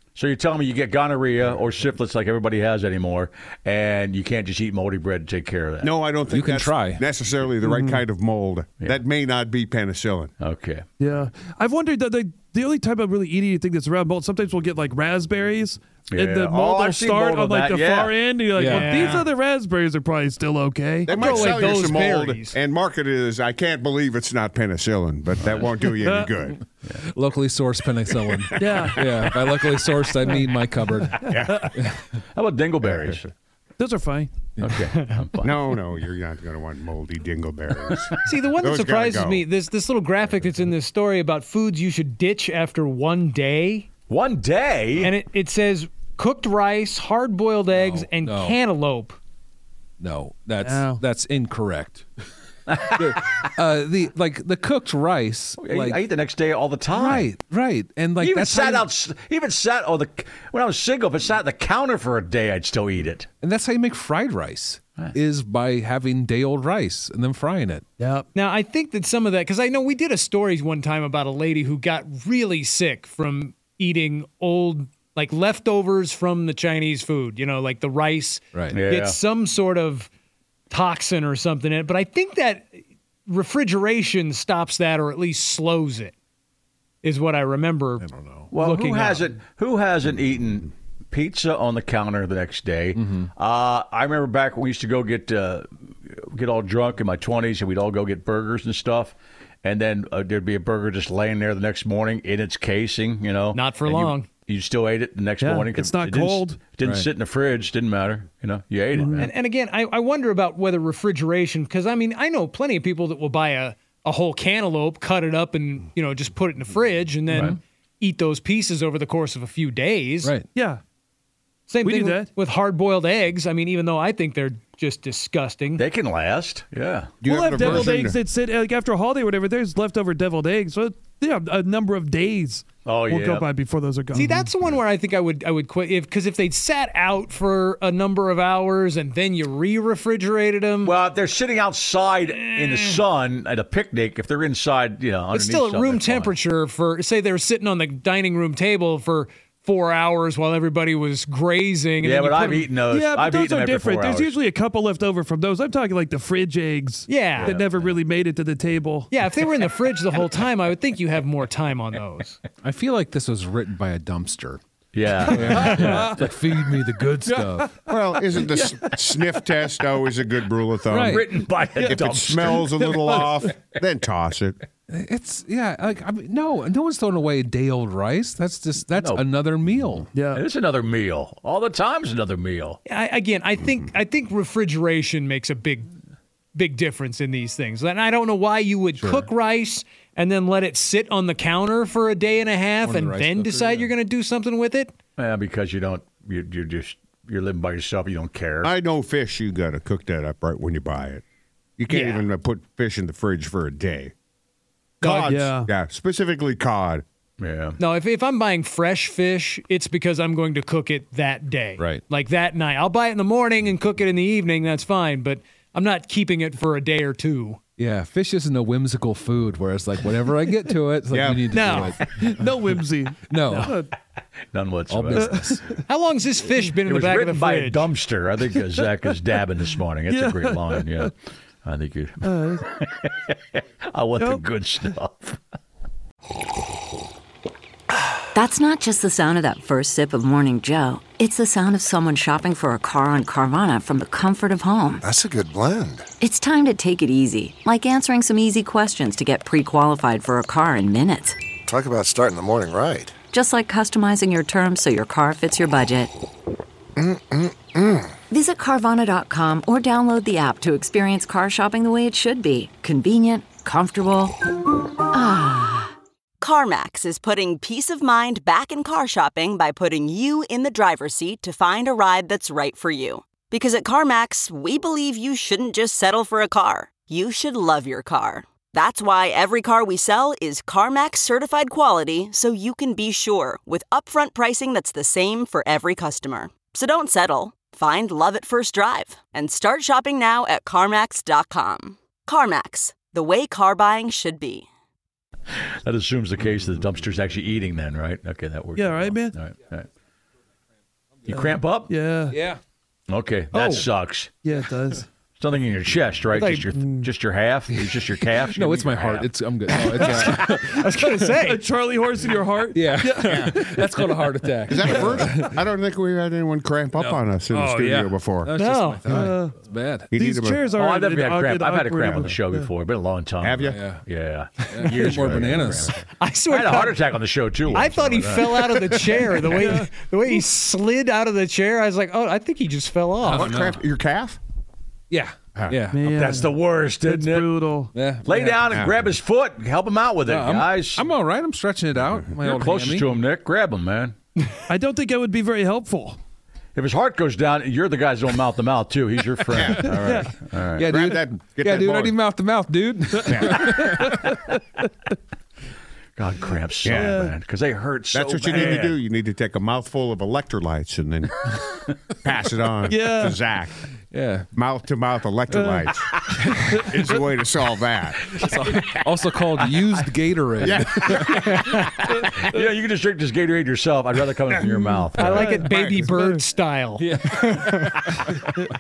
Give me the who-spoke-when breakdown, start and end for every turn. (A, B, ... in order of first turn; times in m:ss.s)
0:00.2-0:06.0 A
0:05.8-0:10.3 B
0:06.3-0:07.0 C
0:07.6-0:08.0 D
0:10.4-0:10.8 A
0:11.0-0:21.1 D
0:16.1-0:18.4 A
0:18.5-0:19.1 C
0:18.6-0:19.3 E
0:21.1-0:26.6 B
0:21.1-0:22.6 E
0:21.1-0:21.6 A
0:26.5-0:32.0 C
0:28.6-0:28.9 D
0:31.3-0:31.7 B
0:32.3-0:33.3 A
0:32.8-0:33.2 B
0:33.8-0:34.4 D
0:34.6-0:35.8 A
0:35.4-0:39.4 B
0:38.2-0:43.9 E
0:44.1-0:45.1 A
0:45.0-0:49.2 E
0:47.8-0:48.1 A
0:48.2-0:48.6 C
0:50.0-0:52.1 C
0:50.6-0:51.0 D
0:52.7-0:53.4 A
0:53.0-0:56.0 C
0:55.6-0:57.3 A
0:56.9-0:58.9 C
0:58.2-1:03.3 A
1:03.4-1:07.8 C
1:08.0-1:08.3 D
1:08.3-1:20.1 E
1:18.7-1:19.2 A
1:20.7-1:26.1 E
1:27.0-1:29.3 E
1:28.0-1:28.5 C
1:28.5-1:49.3 A
1:33.0-1:33.3 C
1:43.5-1:44.3 E
1:45.4-1:46.6 D
1:46.8-1:47.1 C
1:48.9-1:49.3 D
1:49.1-2:00.3 E
1:57.3-1:57.6 A
2:00.6-2:00.8 D
2:01.7-2:05.8 E
2:01.8-2:02.3 D
2:05.8-2:07.9 A
2:07.2-2:08.2 B
2:07.2-2:14.5 D
2:12.8-2:13.5 A
2:14.1-2:21.0 E
2:20.8-2:26.4 A
2:22.5-2:23.0 E
2:25.3-2:32.7 E
2:32.0-2:34.4 A
2:32.9-2:39.1 D
2:37.1-2:37.6 E
2:37.4-2:38.0 A
2:39.1-2:42.4 E
2:42.6-2:44.6 C
2:44.9-2:46.6 A
2:45.2-2:47.7 C
2:45.5-2:46.0 E
2:47.3-2:47.6 A
2:47.9-2:54.6 B
2:48.3-2:49.1 A
2:50.9-2:51.3 C
2:51.0-2:53.3 A
2:54.9-3:00.1 C
2:59.0-2:59.2 A
3:00.1-3:00.4 D
3:00.3-3:02.8 A
3:02.9-3:05.9 E
3:06.6-3:14.9 E
3:12.8-3:13.9 C
3:15.2-3:18.7 A
3:18.6-3:21.2 B
3:21.8-3:24.1 B
3:21.9-3:22.3 E
3:25.0-3:27.0 B
3:25.0-3:25.4 E
3:25.3-3:25.7 D
3:27.4-3:27.8 A
3:27.8-3:37.6 E
3:37.8-3:42.7 C
3:41.1-3:41.4 B
3:41.5-3:42.0 E
3:42.0-3:43.9 D
3:43.3-3:43.8 C
3:44.5-3:45.6 A
3:44.9-3:45.7 C
3:45.2-3:45.5 D
3:45.9-3:47.9 E
3:46.7-3:51.1 A
3:50.1-3:51.1 D
3:51.6-3:55.4 A
3:52.2-3:52.6 D
3:54.2-3:54.5 D
3:58.3-4:05.0 F
4:05.0-4:06.0 G
4:06.2-4:11.4 F
4:11.7-4:13.1 G
4:13.3-4:16.1 F
4:17.0-4:18.0 G
4:18.3-4:24.4 F
4:25.1-4:25.9 F
4:26.4-4:54.7 H
4:55.8-4:59.9 A
4:58.8-4:59.4 D
5:01.3-5:01.9 A
5:01.3-5:02.4 D
5:02.3-5:02.6 C
5:03.1-5:04.3 A
5:03.5-5:03.9 E
5:04.4-5:05.0 D
5:05.4-5:09.3 A
5:06.3-5:06.7 E
5:06.7-5:07.1 D
5:07.8-5:11.1 C
5:10.0-5:11.6 E
5:11.4-5:13.8 D
5:12.7-5:15.6 C
5:13.2-5:13.7 B
5:14.7-5:18.5 B
5:17.0-5:20.2 C
5:18.6-5:19.3 E
5:19.1-5:19.6 D
5:20.1-5:20.7 B
5:20.2-5:22.7 D
5:20.7-5:25.8 A
5:22.0-5:22.3 B
5:23.4-5:23.8 B
5:23.7-5:24.0 C
5:24.7-5:26.0 C
5:25.0-5:25.9 B
5:26.2-5:33.5 E
5:26.5-5:28.7 A
5:27.7-5:28.5 C
5:29.5-5:30.4 D
5:33.3-5:33.8 C
5:33.3-5:34.4 B
5:35.1-5:36.2 C
5:35.9-5:37.9 D
5:36.0-5:37.7 A
5:37.9-5:38.8 C
5:38.2-5:41.0 A
5:38.7-5:39.0 B
5:40.2-5:43.1 C
5:42.4-5:44.2 A
5:44.7-5:46.2 D
5:46.8-5:50.8 A
5:49.5-5:50.1 B
5:50.0-5:50.3 D
5:50.7-5:54.1 C
5:50.8-5:52.2 B
5:53.3-5:53.6 B
5:56.2-5:59.0 A
5:56.8-5:57.2 B
5:56.9-5:57.4 D
5:58.1-6:01.6 B
6:02.2-6:03.8 B
6:02.9-6:03.4 D
6:04.1-6:04.5 C
6:04.6-6:06.2 B
6:05.5-6:05.9 D
6:06.7-6:08.3 B
6:08.4-6:11.6 C
6:10.6-6:11.3 B
6:11.5-6:11.9 E
6:12.1-6:15.6 A
6:15.1-6:17.8 E
6:15.4-6:16.4 D
6:15.6-6:16.1 B
6:17.0-6:18.3 C